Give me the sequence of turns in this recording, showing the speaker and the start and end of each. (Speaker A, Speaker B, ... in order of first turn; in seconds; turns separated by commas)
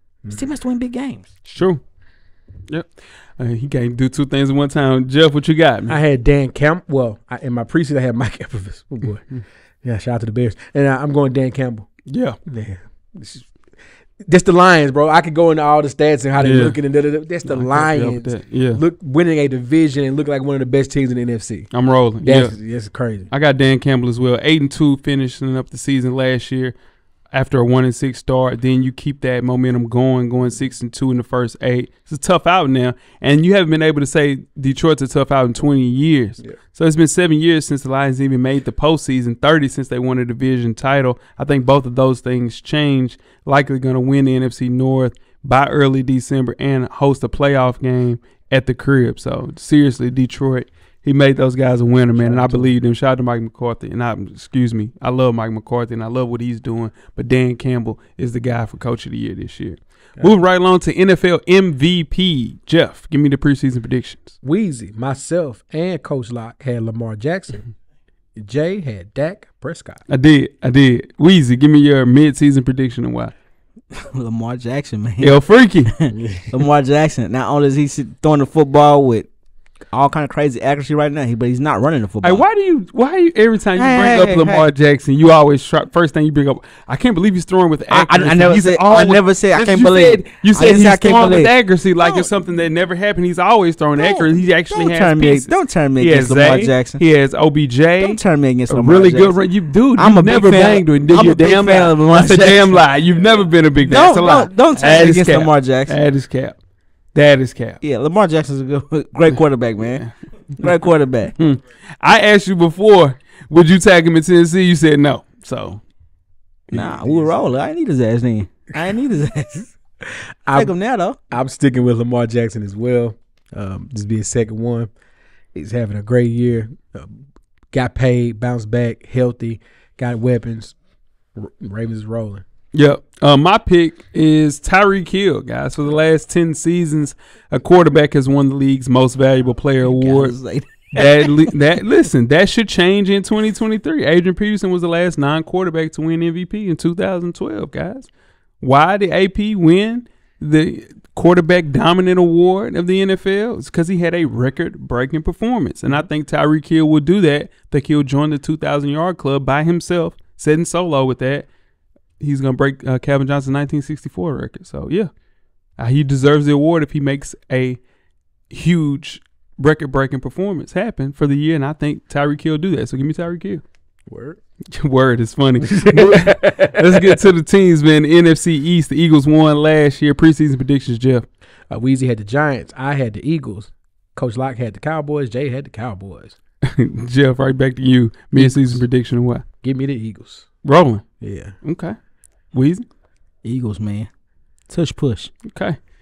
Speaker A: 0.3-1.3, Speaker B: 1.5-1.8, Speaker B: 2.7-5.9, Speaker C: 5.9-9.2, Speaker C: 9.8-11.9, Speaker B: 12.1-12.4, Speaker C: 12.4-13.5, Speaker C: 14.2-21.7, Speaker B: 16.4-16.8, Speaker B: 17.4-18.8, Speaker B: 21.7-22.6, Speaker C: 22.2-23.3, Speaker B: 23.3-26.7, Speaker B: 27.3-64.3, Speaker C: 52.1-52.8, Speaker C: 64.4-67.7, Speaker C: 68.3-70.0, Speaker B: 70.1-73.3, Speaker A: 73.9-79.3, Speaker B: 75.2-75.9, Speaker C: 76.1-76.5, Speaker A: 79.9-82.4, Speaker B: 82.2-106.6, Speaker A: 83.8-84.7, Speaker A: 87.9-92.3, Speaker A: 94.0-97.0, Speaker A: 98.0-99.3, Speaker A: 100.0-102.8, Speaker A: 103.8-106.0, Speaker B: 107.1-107.8, Speaker A: 107.8-110.0, Speaker A: 110.6-111.3, Speaker B: 111.4-115.8, Speaker A: 116.7-119.7, Speaker C: 116.7-117.4, Speaker C: 120.0-120.7, Speaker A: 120.5-121.2, Speaker C: 121.3-124.9, Speaker C: 125.5-130.7, Speaker C: 131.3-132.4, Speaker B: 132.7-140.3, Speaker A: 139.8-141.5, Speaker B: 140.9-148.1, Speaker B: 148.6-161.5, Speaker B: 162.2-165.1, Speaker B: 165.8-167.8, Speaker B: 168.5-173.6, Speaker C: 174.1-174.4, Speaker B: 174.7-181.3, Speaker C: 175.6-177.2, Speaker C: 181.7-186.3, Speaker B: 186.6-189.4, Speaker C: 188.3-188.8, Speaker C: 189.6-190.5, Speaker B: 190.6-191.1, Speaker C: 191.2-191.5, Speaker B: 191.6-191.9, Speaker B: 192.5-192.8, Speaker A: 193.4-194.1, Speaker A: 194.7-195.3, Speaker B: 195.5-195.8